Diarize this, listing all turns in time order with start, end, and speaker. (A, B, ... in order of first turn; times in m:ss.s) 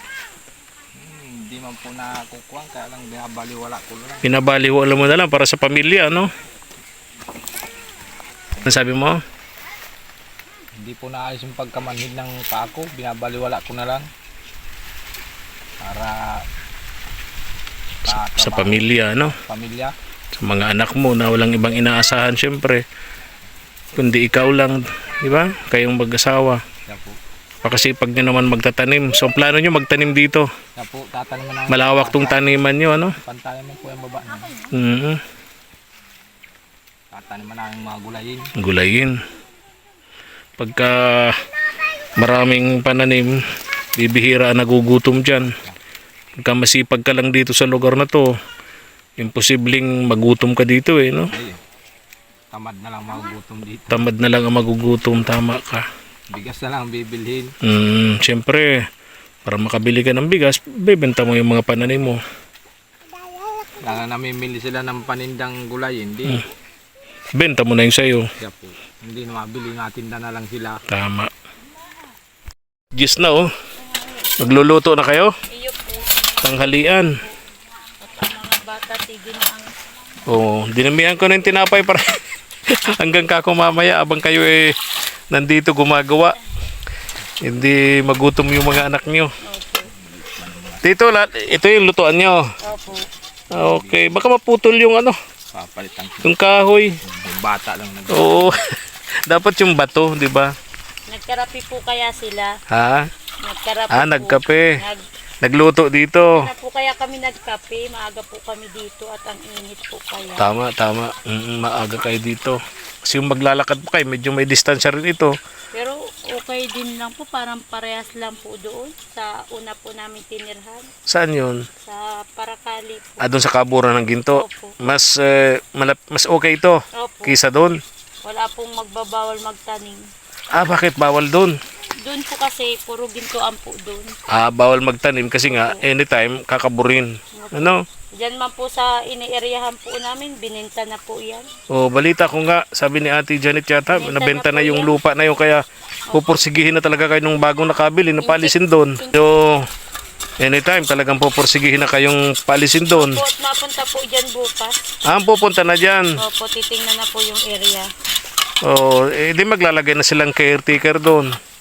0:01.0-0:04.2 A
0:04.2-0:06.3 B
0:08.6-0:09.2 B
0:10.8-0:14.1 A
0:15.8-0:16.4 A
0:18.0-0:19.9 A
0:18.1-0:19.4 B
0:20.4-0:22.8 B
0:23.9-0:26.6 B
0:26.8-0:27.2 A
0:27.6-0:30.5 B
0:30.8-0:32.6 A
0:31.7-0:33.2 B
0:33.2-0:34.7 A
0:34.7-0:35.2 B
0:37.1-0:38.5 A
0:38.6-0:39.2 B
0:40.6-0:41.4 B
0:42.2-0:43.4 B
0:43.9-0:45.5 B
0:46.4-0:48.3 B
0:49.2-0:51.3 B
0:51.3-0:51.6 A
0:52.5-0:54.0 A
0:53.9-0:55.8 B
0:56.3-0:57.5 A
0:57.6-0:58.8 B
0:59.4-1:02.2 B
1:03.8-1:06.5 A
1:07.4-1:08.3 B
1:08.4-1:10.8 A
1:10.9-1:11.3 B
1:12.9-1:13.5 B
1:14.4-1:15.3 B
1:15.5-1:16.4 C
1:16.4-1:17.2 B
1:18.0-1:19.7 C
1:20.2-1:24.7 B
1:25.3-1:26.4 B
1:27.4-1:29.3 B
1:29.4-1:29.9 C
1:29.9-1:30.8 A
1:30.8-1:32.5 B
1:32.6-1:33.0 C
1:33.5-1:35.2 B
1:33.5-1:34.3 A
1:35.5-1:38.6 A
1:36.2-1:36.9 B
1:38.1-1:38.7 B
1:39.2-1:40.5 B
1:41.1-1:42.5 C
1:42.7-1:43.1 B
1:43.4-1:45.0 C
1:43.9-1:44.8 B
1:45.4-1:46.4 B
1:46.3-1:50.5 C
1:50.4-1:55.4 B
1:55.7-2:00.9 C
2:01.1-2:01.7 B
2:01.8-2:03.2 C
2:03.2-2:07.8 B
2:04.3-2:04.7 C
2:06.9-2:07.4 C
2:08.2-2:10.0 C
2:10.5-2:11.6 B
2:12.0-2:14.1 C
2:14.3-2:17.8 B
2:15.5-2:15.8 C
2:17.3-2:21.5 C
2:21.7-2:29.7 B
2:23.9-2:24.9 C
2:28.2-2:29.1 C
2:30.4-2:33.2 B
2:32.9-2:34.7 C
2:35.1-2:36.2 B
2:36.2-2:37.9 C
2:38.6-2:41.4 B